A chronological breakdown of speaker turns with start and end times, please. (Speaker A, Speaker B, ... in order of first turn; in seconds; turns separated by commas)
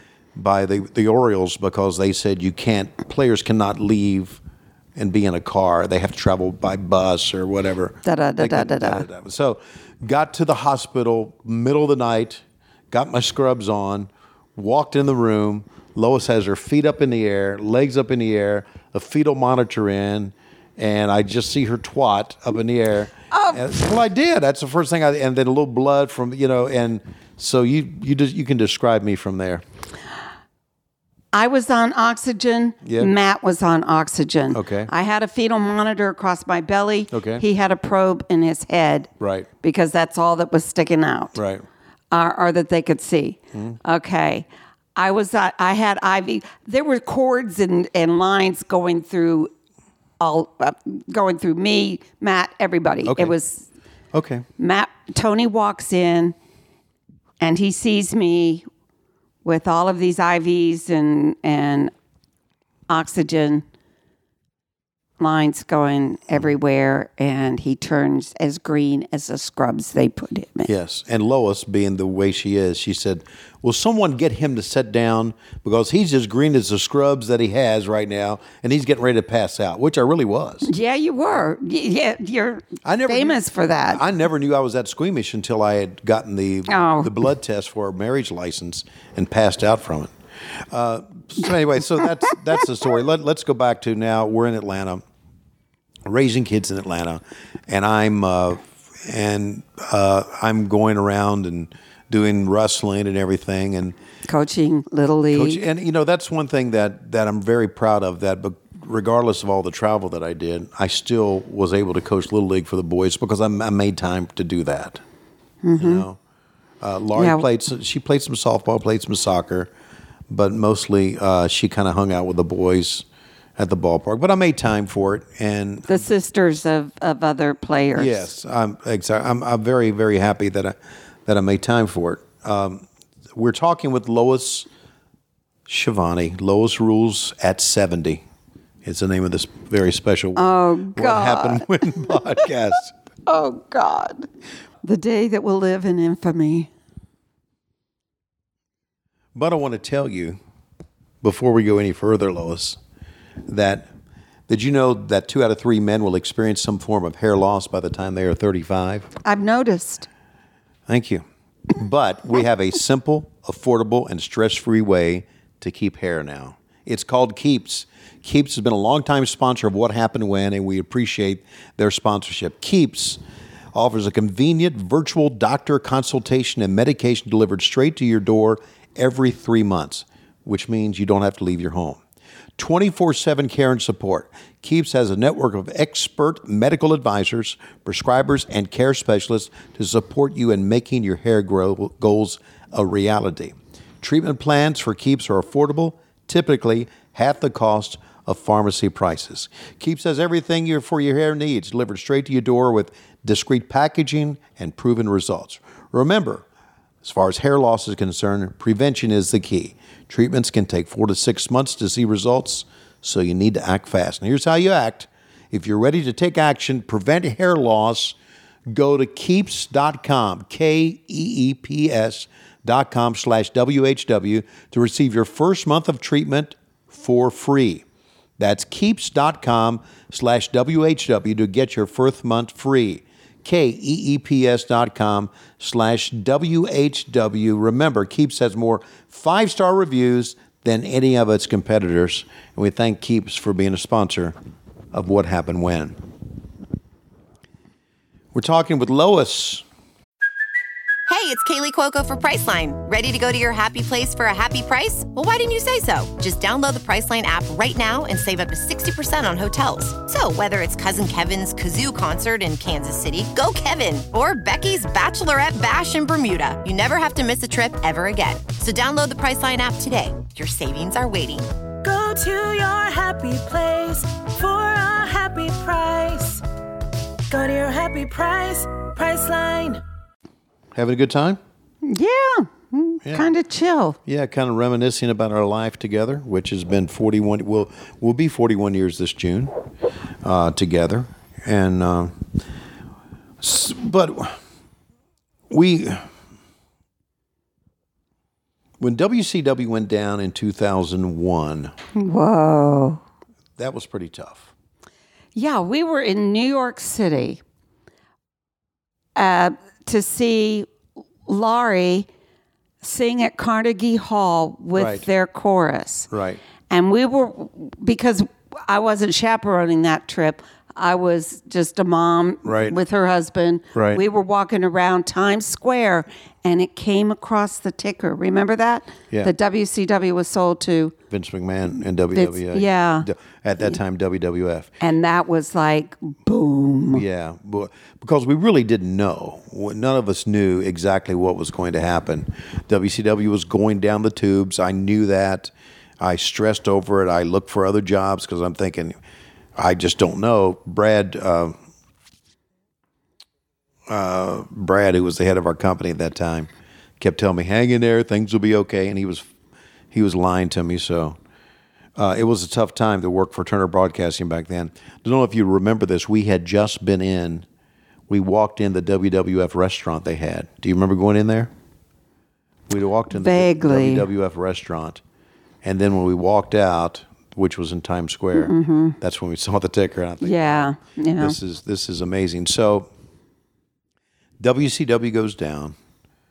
Speaker A: 0.3-4.4, Speaker A: 5.0-29.6, Speaker B: 8.0-9.1, Speaker B: 23.3-23.7, Speaker B: 31.3-39.1, Speaker A: 32.8-33.1, Speaker A: 34.5-34.9, Speaker A: 37.1-37.4, Speaker A: 39.2-39.5, Speaker B: 39.6-41.4, Speaker A: 41.4-41.6, Speaker B: 42.1-49.5, Speaker B: 50.2-53.6, Speaker A: 53.0-53.4, Speaker A: 54.1-54.5, Speaker B: 54.6-56.3, Speaker B: 57.4-58.6, Speaker B: 59.4-61.9, Speaker B: 62.9-63.6, Speaker B: 65.2-70.7, Speaker A: 70.7-80.7, Speaker B: 80.6-84.0, Speaker A: 82.8-90.1, Speaker B: 86.7-87.1, Speaker A: 90.7-95.0, Speaker A: 96.0-104.0, Speaker B: 104.3-105.6, Speaker A: 105.3-115.0, Speaker B: 115.6-116.0, Speaker A: 115.8-116.2, Speaker A: 116.8-119.7, Speaker B: 117.1-117.4, Speaker A: 120.3-123.0, Speaker A: 123.6-126.1, Speaker B: 125.9-128.3, Speaker A: 127.9-134.7, Speaker A: 135.7-138.2, Speaker A: 138.8-142.9, Speaker B: 140.3-142.1, Speaker B: 143.3-144.3, Speaker B: 144.8-146.7, Speaker A: 149.3-150.4, Speaker A: 151.2-152.8, Speaker A: 153.5-153.9, Speaker A: 154.5-159.1, Speaker B: 159.2-160.1, Speaker A: 160.9-173.2, Speaker A: 173.7-182.0, Speaker A: 182.6-206.4, Speaker A: 207.0-218.2, Speaker A: 218.7-227.8, Speaker A: 228.4-244.3, Speaker A: 244.9-246.0, Speaker A: 248.3-249.6, Speaker C: 251.1-271.5, Speaker D: 271.8-276.4, Speaker D: 277.3-279.8, Speaker A: 280.7-281.4, Speaker B: 281.8-284.0, Speaker A: 283.0-283.3, Speaker A: 284.1-289.5, Speaker A: 290.2-292.2, Speaker A: 293.4-294.4, Speaker A: 295.5-296.1, Speaker A: 298.8-301.7, Speaker B: 301.9-303.0, Speaker A: 303.6-304.5, Speaker B: 305.3-307.4, Speaker B: 309.1-310.7, Speaker B: 311.2-312.1, Speaker B: 312.8-316.1, Speaker A: 314.8-315.0, Speaker A: 316.1-316.4, Speaker B: 316.7-330.9, Speaker A: 322.4-322.8, Speaker A: 323.7-324.0, Speaker A: 331.1-334.7, Speaker B: 332.1-333.1, Speaker B: 334.8-337.0, Speaker A: 336.9-348.9, Speaker A: 349.6-351.5, Speaker A: 353.9-359.3, Speaker A: 359.9-361.2, Speaker A: 361.9-367.4, Speaker A: 368.1-371.5, Speaker A: 372.7-375.0, Speaker B: 373.1-374.1, Speaker A: 375.6-382.9, Speaker B: 378.3-378.9, Speaker B: 380.2-381.4, Speaker A: 384.4-385.8